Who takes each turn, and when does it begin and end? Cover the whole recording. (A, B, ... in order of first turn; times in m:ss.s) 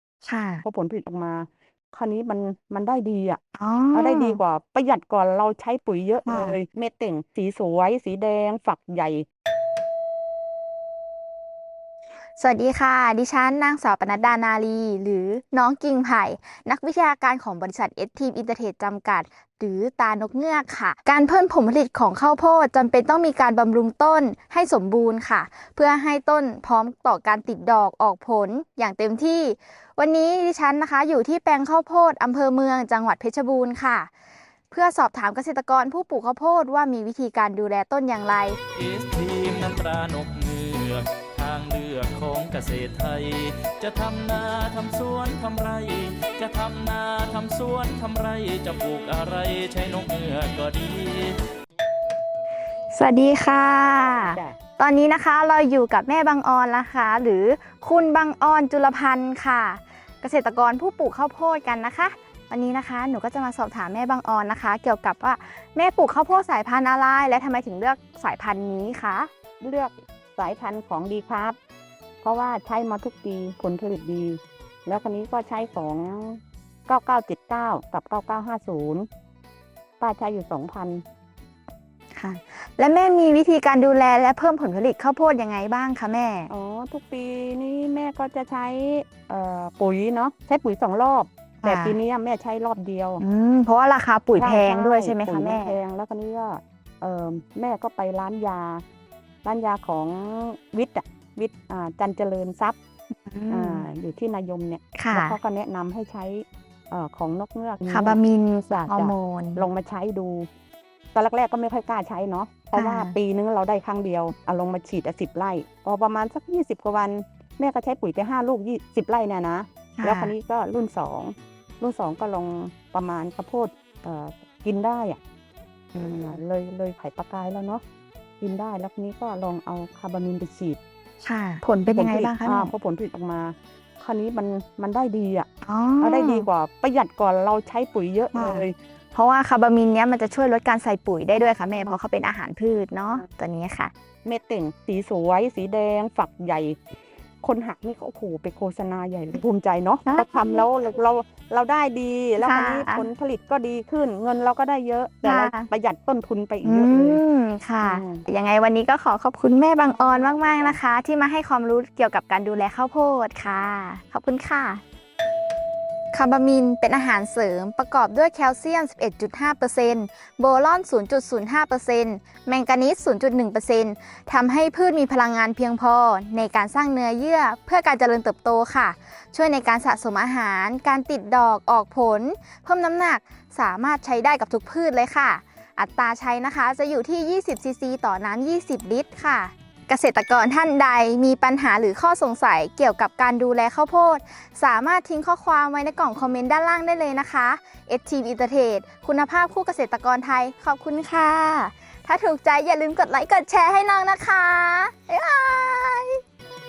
0:00.2-0:00.6 A
0:00.6-0:03.4 B
0:03.6-0:04.4 A
0:03.9-0:09.3 B
0:06.3-0:06.6 A
0:12.4-0:34.1 A
0:34.7-0:38.6 A
0:38.8-0:51.4 C
0:52.9-1:09.3 A
0:54.2-0:54.6 B
1:09.6-1:11.6 B
1:12.2-1:19.1 B
1:20.0-1:21.0 B
1:22.1-1:26.5 A
1:26.5-1:33.2 B
1:31.6-1:32.0 A
1:33.2-1:35.8 A
1:34.4-1:38.8 B
1:39.4-1:42.8 B
1:43.3-1:43.9 A
1:43.5-1:48.2 B
1:45.0-1:45.4 A
1:47.9-1:49.6 A
1:48.7-1:50.5 B
1:51.1-2:05.2 B
1:52.8-1:53.2 A
2:00.0-2:00.3 A
2:06.0-2:06.4 A
2:06.0-2:07.8 B
2:08.4-2:10.8 B
2:11.2-2:12.7 A
2:11.9-2:15.5 B
2:15.6-2:16.5 A
2:16.0-2:18.7 B
2:18.3-2:23.9 A
2:24.2-2:26.8 B
2:27.4-2:37.2 B
2:30.1-2:30.6 A
2:32.4-2:33.1 A
2:35.2-2:35.7 A
2:36.6-2:44.8 A
2:37.8-2:38.2 B
2:39.9-2:40.8 B
2:46.1-3:26.2 A